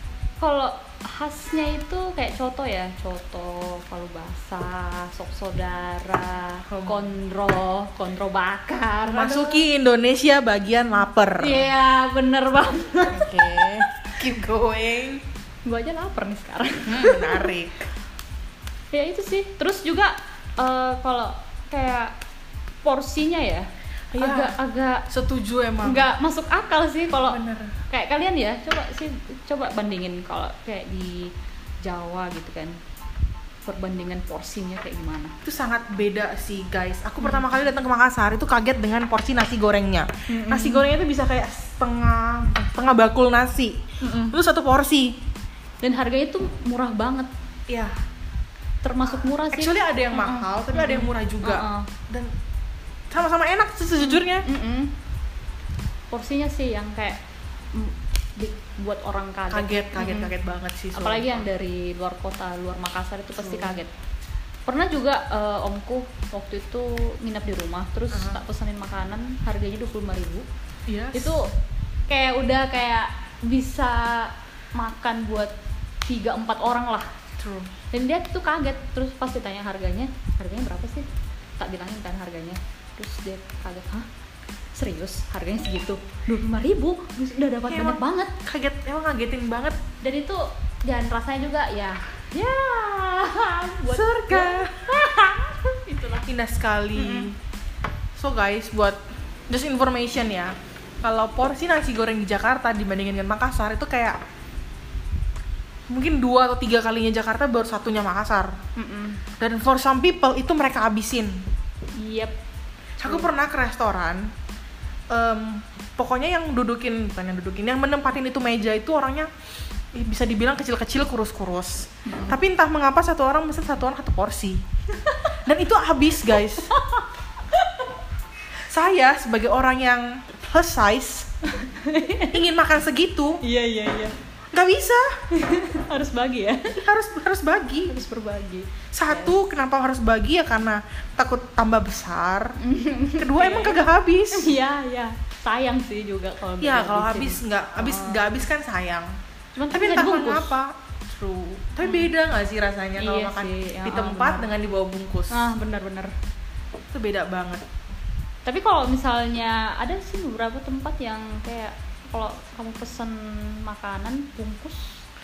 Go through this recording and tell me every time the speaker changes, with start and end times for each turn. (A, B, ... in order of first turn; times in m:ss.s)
0:00.4-0:09.6 A
0:06.7-0:07.1 B
0:09.0-0:11.7 B
0:11.4-0:13.6 A
0:13.1-0:15.2 B
0:15.6-0:17.5 A
0:16.9-0:17.8 B
0:18.9-0:22.1 A
0:22.8-0:23.7 A
0:24.1-0:24.5 B
0:24.2-0:25.1 A
0:25.1-0:26.1 B
0:25.8-0:31.3 A
0:27.2-0:27.7 B
0:31.8-0:32.7 A
0:33.6-0:35.3 A
0:35.4-0:43.8 B
0:40.3-0:40.9 A
0:44.0-0:44.4 A
0:44.3-0:45.1 B
0:45.8-0:47.3 A
0:48.8-0:51.9 A
0:49.5-0:52.3 B
0:53.1-0:54.4 B
0:54.0-0:54.9 A
0:56.1-0:57.2 A
0:57.7-1:00.3 A
0:59.5-1:01.4 B
1:01.0-1:03.9 A
1:03.4-1:03.8 B
1:04.7-1:10.5 A
1:08.1-1:08.4 B
1:10.9-1:11.4 B
1:11.1-1:11.5 A
1:12.1-1:15.5 A
1:16.0-1:17.1 A
1:17.4-1:17.7 B
1:17.9-1:21.0 A
1:21.6-1:24.1 A
1:24.7-1:28.3 A
1:27.7-1:29.8 B
1:30.0-1:36.3 A
1:33.9-1:34.8 B
1:36.3-1:37.3 B
1:37.0-1:37.3 A
1:38.2-1:39.0 B
1:39.5-1:44.2 B
1:45.9-1:48.5 B
1:48.8-1:49.2 A
1:49.4-1:51.4 B
1:52.0-1:52.3 A
1:53.0-1:53.3 A
1:53.0-1:54.2 B
1:55.1-1:59.3 B
1:59.9-2:04.6 B
2:02.0-2:02.4 A
2:05.0-2:05.3 A
2:05.4-2:06.7 B
2:06.4-2:07.8 A
2:08.7-2:11.3 B
2:11.5-2:12.4 A
2:12.3-2:13.4 B
2:13.4-2:14.1 A
2:14.5-2:15.0 B
2:15.3-2:16.8 A
2:16.8-2:17.9 B
2:17.9-2:19.5 A
2:18.9-2:22.5 B
2:22.6-2:28.2 A
2:23.2-2:24.5 B
2:26.6-2:29.1 B
2:29.6-2:30.5 A
2:29.7-2:35.5 B
2:31.8-2:32.1 A
2:33.0-2:34.5 A
2:35.3-2:36.1 A
2:36.9-2:37.6 B
2:38.4-2:45.0 A